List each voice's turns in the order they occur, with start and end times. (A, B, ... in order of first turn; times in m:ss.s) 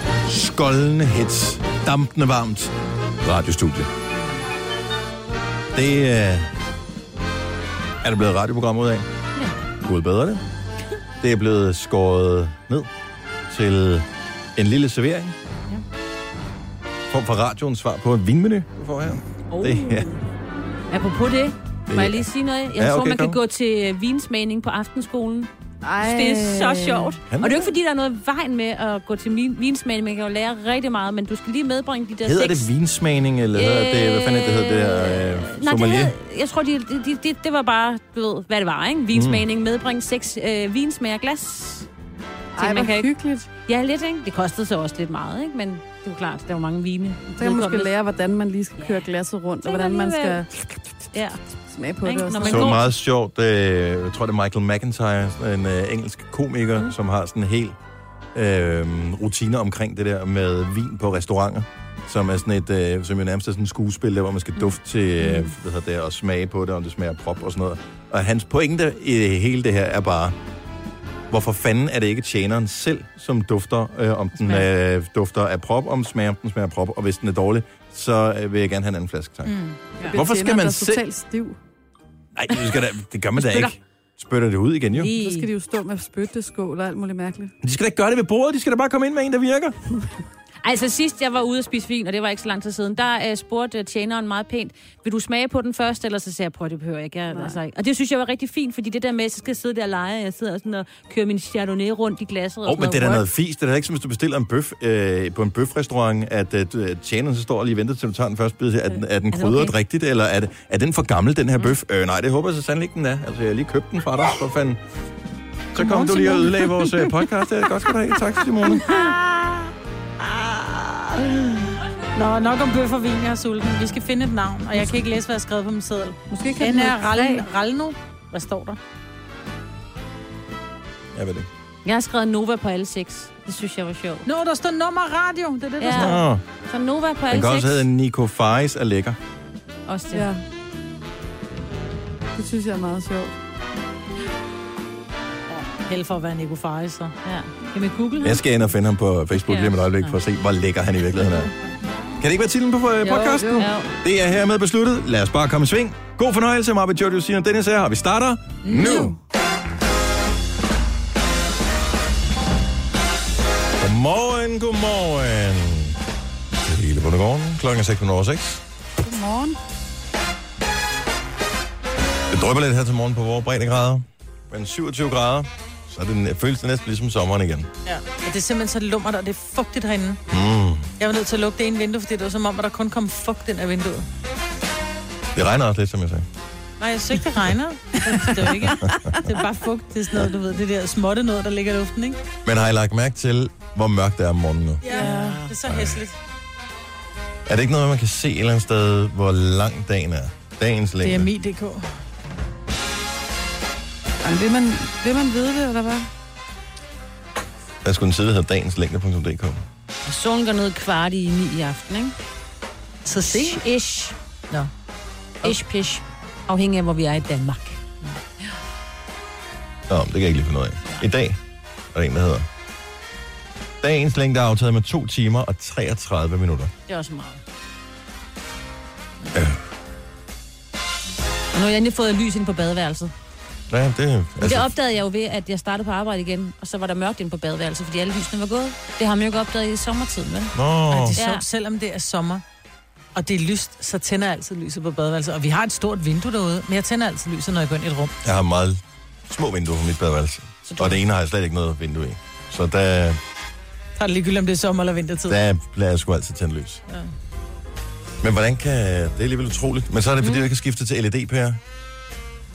0:00.2-0:03.9 A
0:05.7-0:06.5 A
0:08.0-0:09.1 A
0:09.4-0:09.6 B
0:09.8-0:10.4 A
0:11.2-0:12.9 A
0:13.5-0:15.4 A
0:17.1-0:20.1 A
0:19.5-0:20.0 B
0:20.9-0:25.5 B
0:21.9-0:23.4 A
0:25.8-0:27.2 C
0:26.0-0:32.7 B
0:27.3-0:27.7 A
0:32.2-0:36.1 A
0:33.6-0:41.9 B
0:39.1-0:39.4 A
0:42.6-0:43.5 C
0:42.6-0:43.1 B
0:43.7-0:47.9 B
0:47.4-0:50.7 C
0:48.8-0:49.1 B
0:49.6-0:50.4 B
0:51.1-0:51.4 B
0:51.7-0:52.7 C
0:52.0-0:52.9 B
0:52.4-0:57.8 A
0:58.3-1:10.4 A
1:05.2-1:05.5 B
1:11.3-1:19.6 A
1:19.4-1:19.9 D
1:20.0-1:21.6 C
1:20.1-1:21.0 A
1:22.4-1:25.2 A
1:23.4-1:23.7 B
1:25.0-1:25.5 B
1:25.1-1:27.5 C
1:27.6-1:29.8 A
1:30.6-1:43.3 B
1:37.3-1:37.6 C
1:42.6-1:54.8 A
1:49.3-1:49.7 B
1:55.7-1:58.9 A
1:55.8-1:57.0 D
1:58.8-1:59.7 D
2:00.3-2:01.2 D
2:02.2-2:08.8 D
2:06.3-2:07.4 C
2:11.1-2:11.5 A
2:11.8-2:14.2 B
2:14.2-2:16.2 D
2:15.8-2:17.8 B
2:15.9-2:16.4 A
2:17.3-2:19.2 A
2:19.9-2:20.3 B
2:20.1-2:20.4 C
2:22.4-2:23.3 C
2:25.9-2:27.1 D
2:27.2-2:28.4 B
2:28.2-2:31.5 A
2:29.4-2:29.8 B
2:32.2-2:39.2 A
2:33.0-2:33.7 C
2:33.6-2:33.9 B
2:38.8-2:39.2 C
2:43.8-2:46.0 A
2:46.6-2:48.6 A
2:49.0-2:49.6 C
2:52.3-2:57.7 A
2:57.8-3:00.2 D
3:00.3-3:00.9 A
3:01.0-3:04.1 D
3:05.4-3:06.3 A
3:06.8-3:12.2 D
3:08.6-3:09.3 A
3:12.4-3:14.9 A
3:14.8-3:16.2 D
3:14.9-3:15.5 B
3:15.7-3:16.0 A
3:17.5-3:21.3 A
3:21.0-3:21.9 D
3:24.2-3:26.1 C
3:27.8-3:29.6 A
3:30.0-3:32.2 B
3:33.0-3:33.6 D
3:33.2-3:34.2 B
3:35.4-3:37.8 B
3:39.9-3:41.4 A
3:41.9-3:42.5 A
3:43.8-3:46.7 A
3:46.9-3:47.4 B
3:49.3-3:49.6 A
3:51.5-3:53.1 B
3:53.7-3:54.7 A
3:54.4-4:00.5 B
4:00.6-4:01.2 A
4:00.9-4:02.4 D
4:01.2-4:01.4 B
4:03.2-4:08.1 D
4:08.2-4:13.2 A
4:10.7-4:11.0 B
4:14.0-4:15.4 D
4:15.3-4:16.8 A
4:18.2-4:21.6 A